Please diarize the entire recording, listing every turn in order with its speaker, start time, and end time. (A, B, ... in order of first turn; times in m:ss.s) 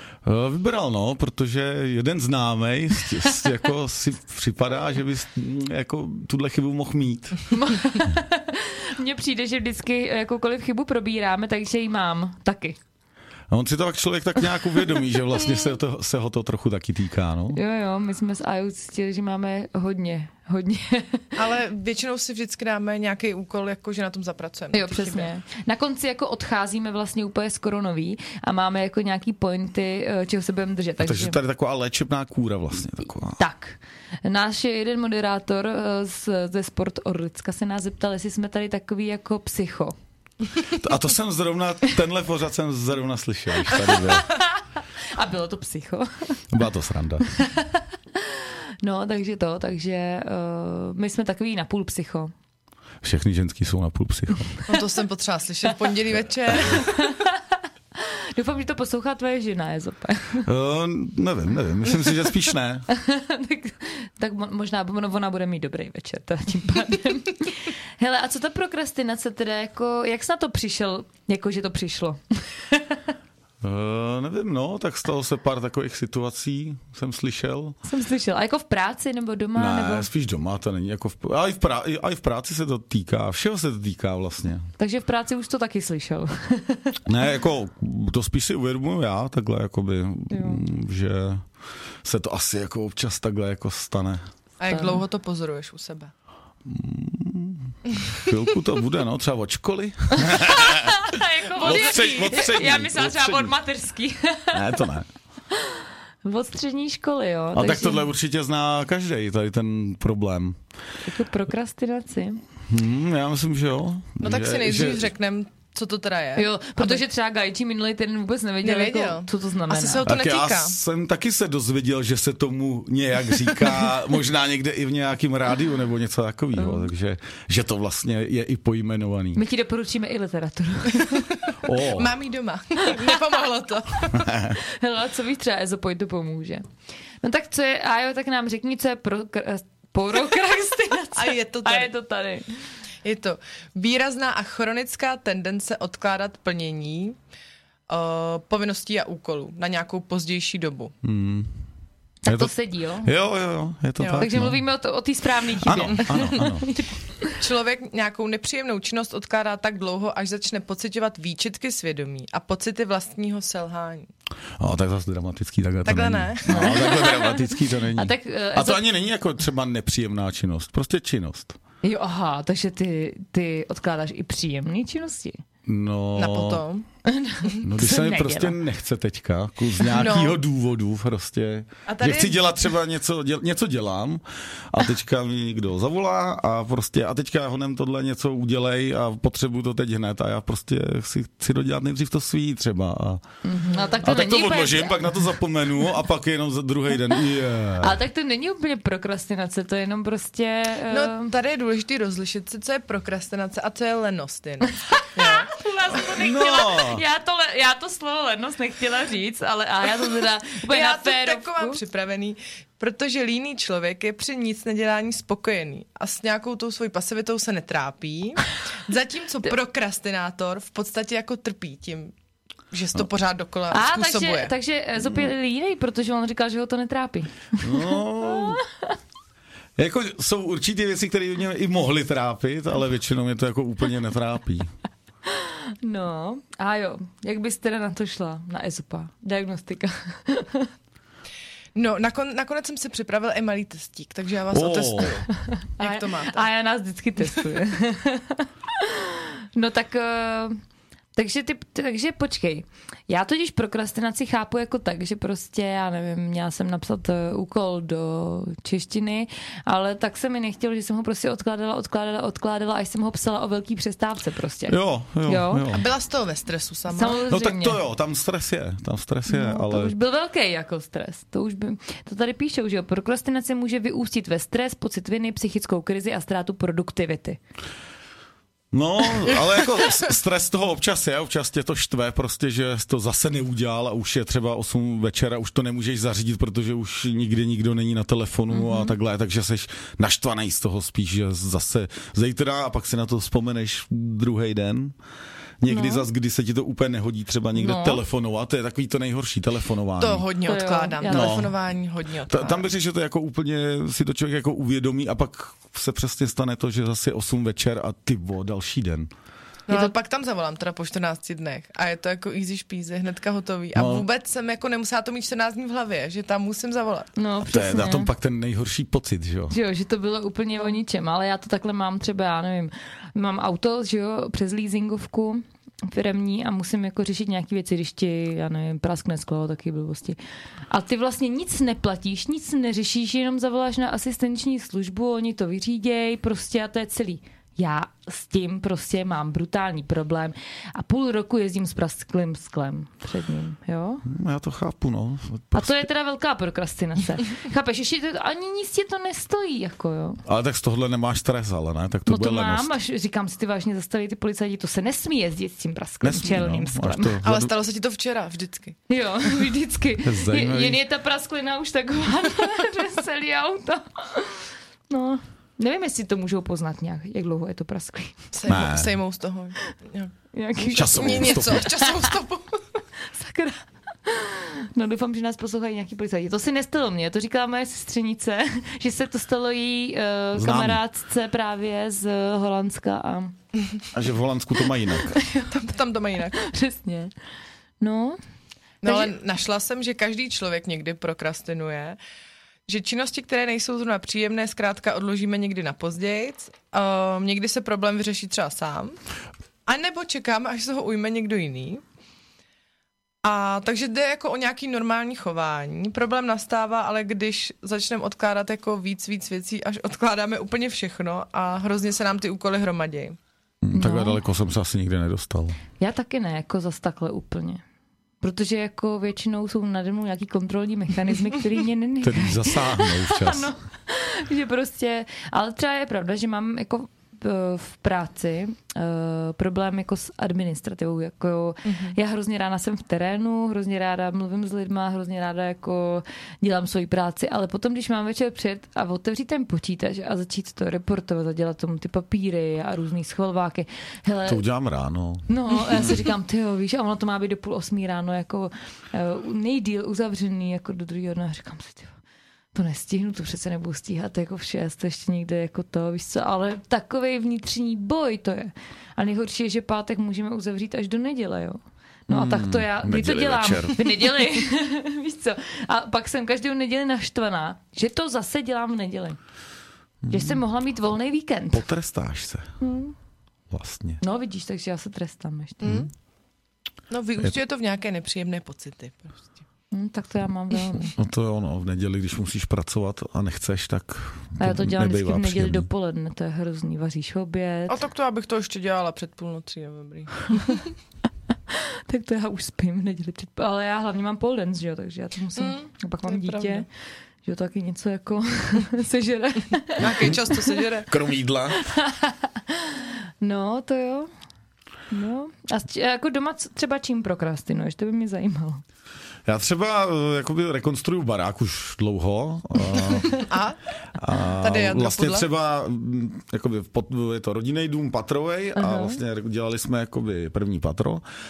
0:00.2-0:07.5 A
0:07.5-0:12.8 B
0:13.5-0:17.6 A
0:17.5-0:21.4 B
0:21.4-0:25.3 C
0:24.7-0:31.4 B
0:31.0-0:33.4 A
0:33.4-0:40.0 B
0:40.7-0:44.3 A
0:44.0-0:44.4 B
0:45.1-0:46.4 B
0:46.5-0:47.3 A
0:47.3-0:52.3 B
0:53.0-0:54.5 A
0:54.7-0:57.0 C
0:56.5-0:56.8 A
0:56.7-1:00.5 B
1:00.4-1:02.9 A
1:02.9-1:13.0 B
1:13.6-1:17.8 A
1:17.9-1:20.1 B
1:19.6-1:24.7 A
1:24.8-1:27.0 B
1:27.1-1:31.4 A
1:30.3-1:30.6 B
1:32.0-1:34.2 A
1:34.6-1:36.1 C
1:34.7-1:35.0 B
1:36.6-1:43.6 A
1:40.2-1:44.7 B
1:41.9-1:42.2 C
1:44.5-1:45.1 A
1:45.5-1:48.1 B
1:47.5-1:50.6 A
1:51.0-1:52.4 B
1:52.7-1:55.1 A
1:54.2-1:57.0 C
1:56.4-2:00.0 B
1:58.6-2:00.8 C
2:00.1-2:09.4 A
2:06.6-2:06.9 B
2:09.4-2:11.3 B
2:11.0-2:14.3 C
2:11.6-2:12.2 A
2:14.1-2:14.6 A
2:14.6-2:16.7 B
2:17.2-2:22.5 B
2:21.2-2:21.9 C
2:23.0-2:27.2 C
2:27.9-2:30.9 C
2:31.0-2:31.5 A
2:32.2-2:33.1 B
2:32.3-2:32.5 A
2:33.0-2:34.6 A
2:34.0-2:34.3 C
2:34.2-2:37.3 B
2:35.6-2:36.7 A
2:37.4-2:44.1 C
2:44.6-2:51.6 A
2:45.8-2:47.1 C
2:46.5-2:48.8 B
2:51.8-2:55.4 B
2:55.7-2:56.7 A
2:56.2-2:56.8 C
2:57.1-2:58.6 B
2:57.6-3:13.2 A
2:59.9-3:00.4 C
3:01.9-3:02.4 C
3:13.4-3:15.3 B
3:14.0-3:18.0 A
3:17.8-3:21.3 B
3:20.9-3:25.5 C
3:25.0-3:31.8 B
3:26.0-3:27.0 A
3:30.6-3:42.1 C
3:42.7-3:44.5 C
3:43.7-3:48.9 B
3:45.0-3:45.3 A
3:47.6-3:48.6 A
3:49.8-3:54.7 A
3:55.3-4:00.7 B
4:01.8-4:06.5 C
4:04.5-4:05.2 A
4:05.3-4:10.6 B
4:11.2-4:25.7 B
4:24.7-4:25.8 A
4:25.7-4:27.2 C
4:26.9-4:27.8 B
4:27.3-4:30.0 A
4:29.3-4:37.4 B
4:38.7-4:55.0 A
4:48.5-4:49.0 B
4:55.6-5:00.3 A
4:55.7-4:56.0 B
4:57.6-4:58.0 B
5:00.0-5:02.7 C
5:00.4-5:01.4 B
5:01.1-5:01.6 A
5:02.3-5:09.1 A
5:09.7-5:17.1 C
5:09.7-5:09.9 B
5:13.8-5:14.1 A
5:17.2-5:18.1 B
5:17.4-5:19.6 A
5:19.5-5:30.2 B
5:30.7-5:44.0 B
5:44.0-5:45.9 A
5:45.5-5:50.2 B
5:50.3-5:52.7 A
5:52.1-5:57.2 B
5:56.0-5:57.5 A
5:57.2-5:58.8 C
5:58.9-6:08.2 B
6:00.0-6:00.8 A
6:08.3-6:10.1 C
6:08.5-6:08.9 A
6:10.3-6:12.2 B
6:10.7-6:12.6 C
6:10.7-6:11.7 A
6:13.1-6:23.4 B
6:20.4-6:20.8 A
6:23.9-6:25.2 A
6:25.1-6:25.6 B
6:25.5-6:26.4 C
6:26.3-6:27.1 B
6:27.8-6:28.2 B
6:28.8-6:32.0 C
6:28.8-6:29.1 B
6:32.7-6:39.0 C
6:39.7-6:41.8 C
6:43.2-6:53.2 C
6:53.6-6:55.6 A
6:53.7-6:54.2 B
6:55.8-6:57.6 B
6:58.2-7:24.4 B
7:02.0-7:03.5 A
7:11.6-7:12.0 C
7:24.3-7:26.0 A
7:25.3-7:32.0 B
7:32.5-7:49.2 B
7:42.1-7:43.9 A
7:50.0-7:50.4 A
7:50.1-7:51.7 B
7:51.5-7:52.5 A
7:52.6-7:53.0 B
7:53.5-7:54.0 A
7:54.0-7:55.7 B
7:55.6-7:55.9 C
7:56.9-7:59.2 C
7:59.7-8:01.0 B
8:01.0-8:05.7 A
8:04.4-8:07.8 B
8:07.7-8:10.6 C
8:11.5-8:16.7 B
8:15.4-8:16.6 C
8:17.2-8:20.4 B
8:19.8-8:20.9 C
8:20.9-8:21.7 A
8:21.6-8:24.1 B
8:24.9-8:28.6 B
8:29.3-8:33.2 A
8:33.0-8:33.6 C
8:34.0-8:41.0 A
8:34.4-8:35.3 C
8:38.6-8:39.0 B